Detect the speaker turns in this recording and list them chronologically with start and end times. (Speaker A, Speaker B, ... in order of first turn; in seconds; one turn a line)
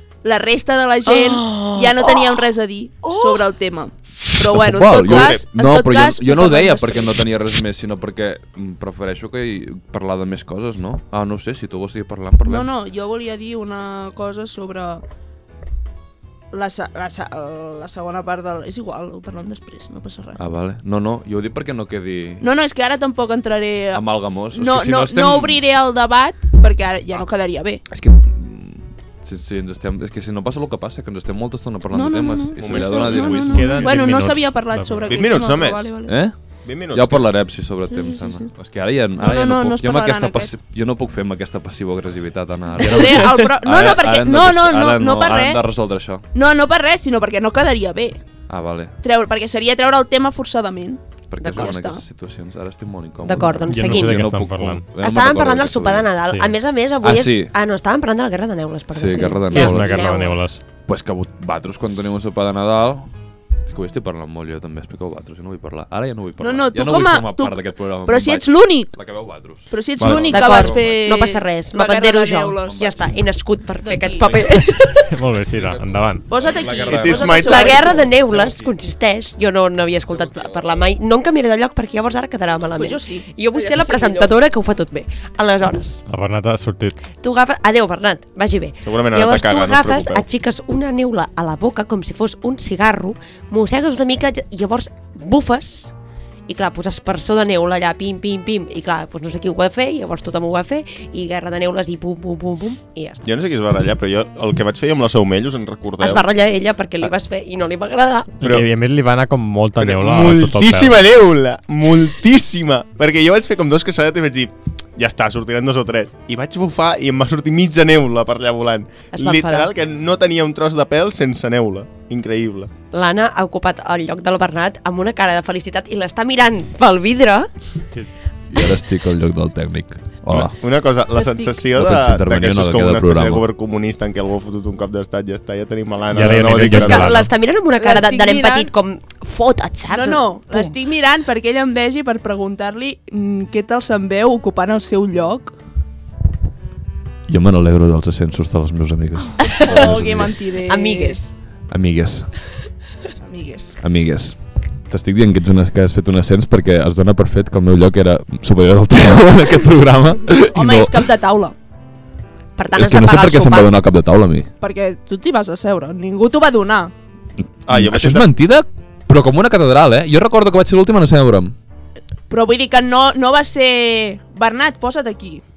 Speaker A: 0.2-7.2
Speaker B: 1.1-2.4
Speaker B: 3.0-3.5
Speaker C: 4.4-12.7
Speaker D: 5.0-5.4
Speaker A: 12.4-15.0
Speaker A: 16.5-20.4
Speaker C: 20.4-22.4
Speaker A: 22.4-27.8
Speaker C: 23.9-25.6
Speaker C: 27.9-33.8
Speaker A: 31.9-36.2
Speaker D: 32.6-34.0
Speaker E: 33.5-35.1
Speaker D: 35.1-35.9
Speaker C: 36.0-36.4
Speaker D: 36.6-37.3
Speaker C: 36.9-46.2
Speaker A: 37.9-38.5
Speaker A: 39.2-40.5
Speaker A: 42.8-45.6
Speaker A: 46.3-48.2
Speaker C: 48.5-48.9
Speaker A: 49.0-52.0
Speaker C: 51.3-56.1
Speaker B: 51.4-51.7
Speaker B: 53.2-54.2
Speaker E: 53.7-54.9
Speaker B: 55.0-60.4
Speaker C: 57.0-57.5
Speaker C: 58.9-60.1
Speaker E: 59.5-60.6
Speaker C: 60.9-63.1
Speaker C: 63.6-71.1
Speaker A: 66.4-69.0
Speaker A: 69.7-72.8
Speaker D: 70.0-70.5
Speaker B: 70.2-75.2
Speaker C: 72.6-73.1
Speaker A: 73.8-74.4
Speaker C: 74.2-74.7
Speaker E: 75.0-76.2
Speaker C: 75.5-78.8
Speaker A: 76.3-78.0
Speaker D: 76.8-77.9
Speaker B: 77.4-86.0
Speaker C: 80.0-80.9
Speaker A: 82.8-84.4
Speaker E: 86.1-87.1
Speaker B: 87.1-95.9
Speaker D: 88.8-90.2
Speaker B: 96.5-103.2
Speaker D: 103.2-106.2
Speaker B: 106.0-108.4
Speaker E: 108.4-111.0
Speaker D: 108.4-108.7
Speaker D: 109.8-122.7
Speaker B: 119.1-119.7
Speaker B: 122.9-127.5
Speaker C: 128.5-130.5
Speaker D: 130.3-137.2
Speaker A: 131.1-131.5
Speaker C: 131.7-133.4
Speaker E: 136.1-137.3
Speaker B: 136.3-140.7
Speaker A: 137.8-138.7
Speaker A: 139.9-145.5
Speaker C: 147.3-150.4
Speaker A: 149.4-151.3
Speaker B: 149.5-149.9
Speaker B: 150.6-151.2
Speaker C: 151.7-152.3
Speaker A: 153.2-153.8
Speaker C: 153.8-161.0
Speaker A: 160.5-161.5
Speaker B: 162.6-163.8
Speaker C: 162.7-164.5
Speaker A: 164.6-166.9
Speaker D: 167.7-168.3
Speaker C: 167.7-171.5
Speaker A: 172.3-175.4